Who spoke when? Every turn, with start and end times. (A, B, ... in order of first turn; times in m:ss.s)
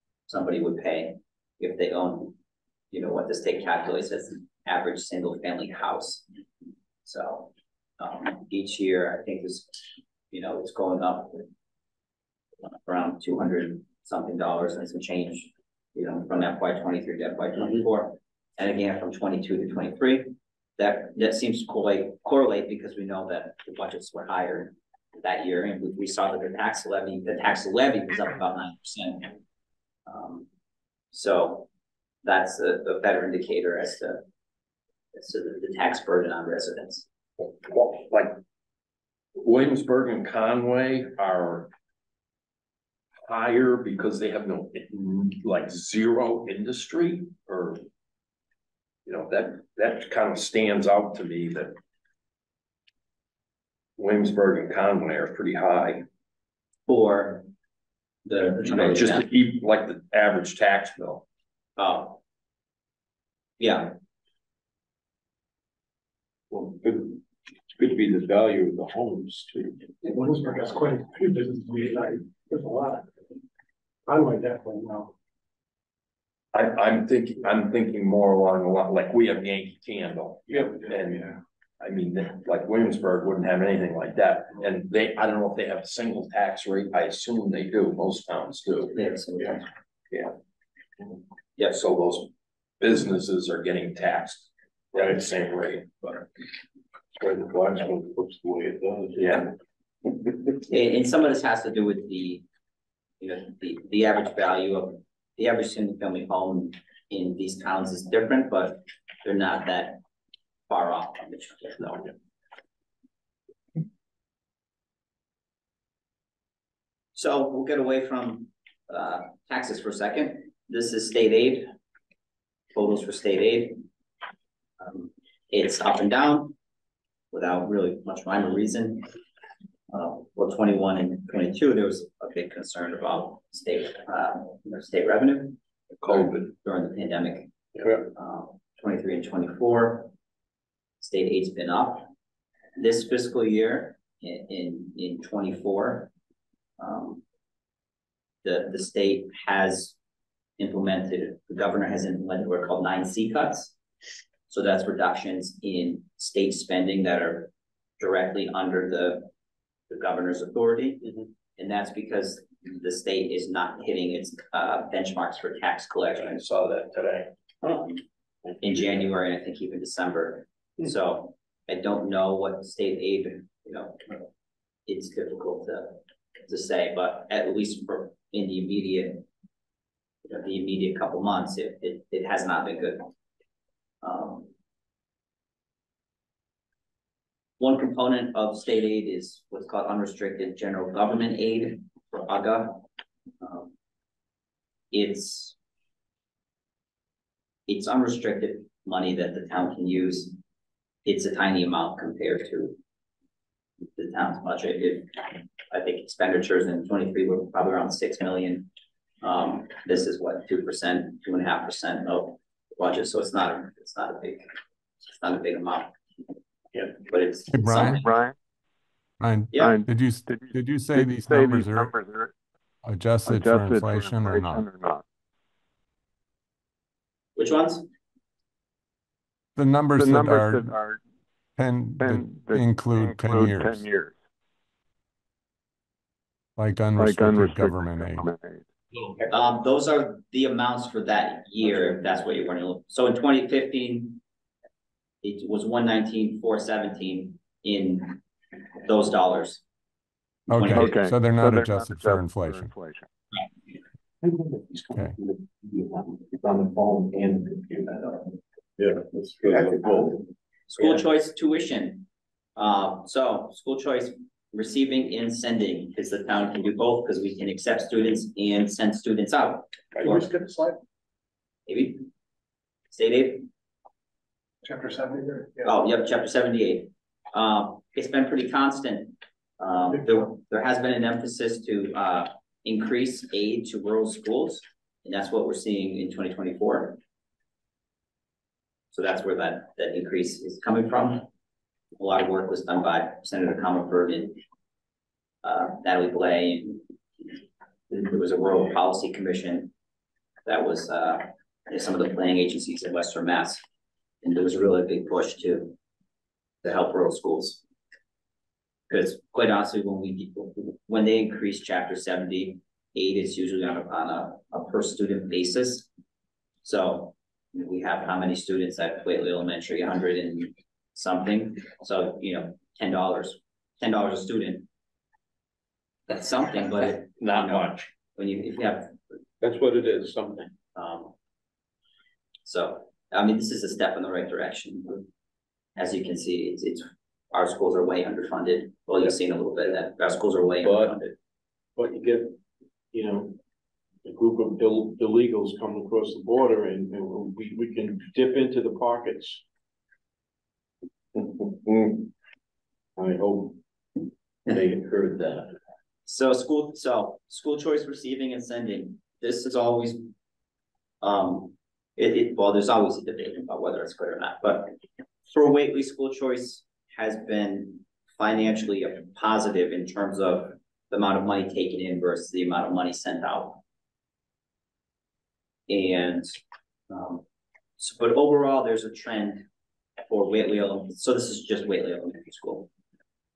0:00.3-0:02.4 A
0:02.9-0:06.2 A
0:07.0-0:11.5 A
0:12.7-0:29.3 A
0:30.0-0:30.4 A
0:31.1-0:31.7 A
0:32.2-0:34.2 A
0:35.1-0:37.0 A
0:37.4-0:38.4 B
0:39.3-0:41.7 B
0:43.2-0:47.8 B
0:49.0-0:51.8 B
0:54.0-0:56.0 B
0:56.9-0:57.5 A
0:58.3-0:59.2 A
0:58.6-1:01.2 B
1:01.8-1:02.2 A
1:03.6-1:04.0 A
1:06.5-1:07.2 C
1:07.7-1:10.0 C
1:10.0-1:13.1 D
1:14.0-1:15.1 D
1:16.5-1:29.0 B
1:29.0-1:29.7 A
1:31.6-1:36.3 B
1:37.2-1:39.4 C
1:39.2-1:39.5 B
1:40.6-1:42.4 A
1:43.2-1:50.0 A
1:50.7-1:52.0 A
1:57.1-2:01.7 A
2:02.7-2:03.8 A
2:04.8-2:06.6 A
2:07.3-2:09.1 A
2:09.9-2:15.6 A
2:16.0-2:16.5 B
2:16.1-2:17.5 A
2:17.8-2:18.1 C
2:18.1-2:20.1 A
2:21.0-2:22.1 A
2:22.8-2:26.1 A
2:26.8-2:27.2 A
2:28.4-2:30.0 A
2:30.6-2:33.7 A
2:34.5-2:39.3 A
2:39.9-2:46.4 A
2:46.1-2:47.3 B
2:47.7-2:48.0 A
2:48.6-2:54.0 A
2:54.9-2:59.2 A
3:00.2-3:03.1 A
3:04.0-3:04.5 A
3:07.6-3:12.8 A
3:13.4-3:13.7 A
3:14.9-3:15.6 A
3:17.7-3:20.4 A
3:21.0-3:22.8 A
3:24.0-3:25.2 A
3:25.7-3:28.7 A
3:29.2-3:34.5 A
3:35.0-3:35.9 A
3:37.0-3:38.0 A
3:37.5-3:38.1 E
3:37.6-3:38.3 F
3:39.2-3:41.9 E
3:39.5-3:39.8 A
3:39.6-3:42.3 F
3:42.8-3:44.7 E
3:43.2-3:45.0 F
3:47.4-3:47.9 A
3:49.6-3:50.7 E
3:49.9-3:51.0 F
3:51.6-3:53.9 E
3:52.0-3:54.2 F
3:56.6-3:58.3 E
3:57.0-3:58.7 F
3:59.3-4:04.2 A
4:05.2-4:08.2 A
4:08.8-4:09.6 A
4:10.5-4:12.7 E
4:10.5-4:10.9 A
4:10.6-4:13.0 F
4:14.2-4:20.3 C
4:14.9-4:15.2 E
4:20.7-4:30.1 A
4:30.0-4:30.8 D
4:31.7-4:32.1 A
4:32.9-4:33.4 A
4:34.6-4:35.7 D
4:35.6-4:47.0 A
4:48.9-4:51.3 A
4:52.0-4:54.4 A
4:55.4-4:56.8 A
4:57.9-4:59.7 A
5:00.4-5:03.6 A
5:04.2-5:05.7 A
5:06.6-5:07.6 A
5:08.9-5:15.9 A
5:16.6-5:24.7 A
5:26.1-5:29.0 A
5:27.2-5:27.9 B
5:29.4-5:30.5 C
5:30.7-5:31.1 A
5:32.4-5:35.0 A
5:35.8-5:41.1 A
5:40.6-5:41.0 C
5:41.8-5:42.4 C
5:42.9-5:43.4 C
5:44.0-5:49.4 C
5:51.1-5:52.1 B
5:53.0-5:53.6 C
5:54.5-5:55.5 C
5:56.0-6:00.1 A
6:01.0-6:04.7 A
6:05.3-6:13.6 A
6:15.7-6:16.4 A
6:16.9-6:17.2 A
6:17.8-6:19.4 A
6:20.0-6:22.7 A